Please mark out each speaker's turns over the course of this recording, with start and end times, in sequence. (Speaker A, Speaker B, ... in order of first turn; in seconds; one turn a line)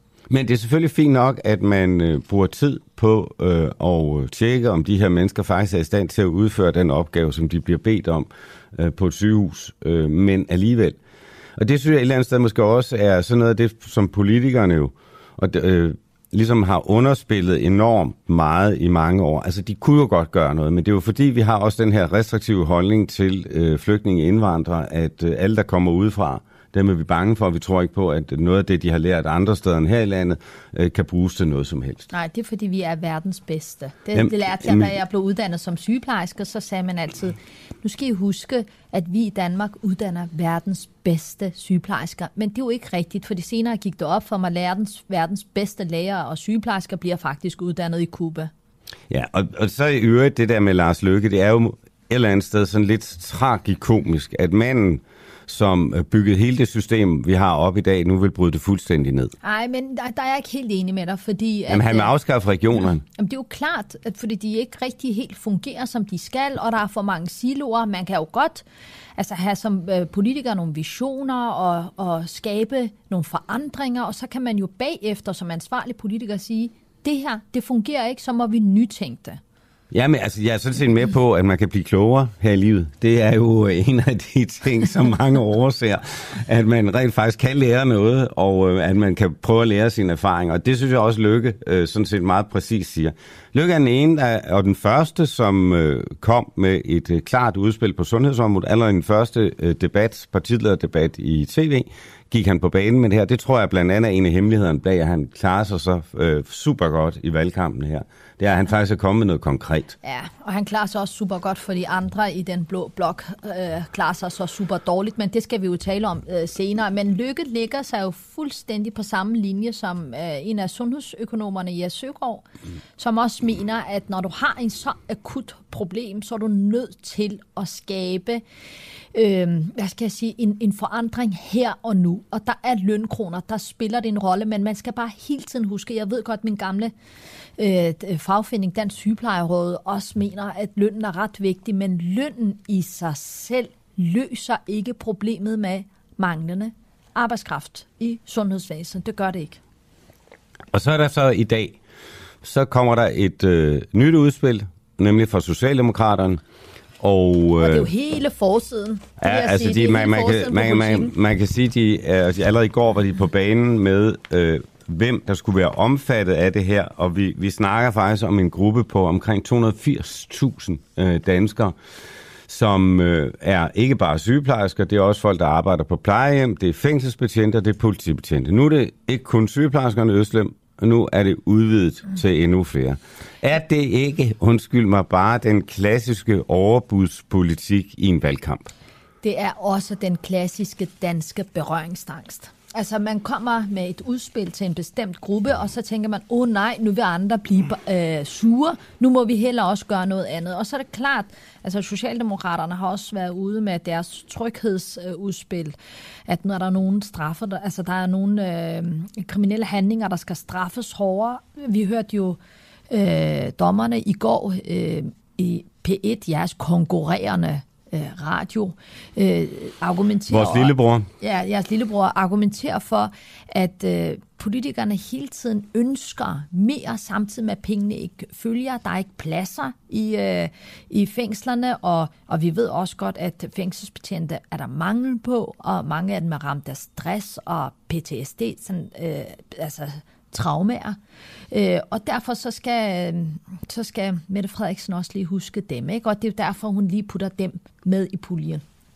Speaker A: 0.3-11.0
Speaker A: 11.6-32.1
Speaker B: 32.1-48.5
Speaker A: 34.1-34.9
Speaker A: 49.1-59.3
Speaker B: 59.4-62.1
Speaker A: 61.7-63.0
Speaker B: 63.1-68.6
Speaker B: 69.2-79.4
Speaker A: 79.9-110.0
Speaker B: 110.0-122.5
Speaker B: 123.0-128.4
Speaker B: 129.1-136.9
Speaker B: 137.6-149.6
Speaker A: 150.7-151.8
Speaker A: 152.4-156.4
Speaker A: 157.0-157.9
Speaker B: 157.6-161.1
Speaker A: 159.2-171.8
Speaker A: 172.5-188.7
Speaker B: 189.2-205.8
Speaker B: 206.3-212.4
Speaker B: 212.9-241.0
Speaker A: 220.3-221.1
Speaker B: 241.5-248.6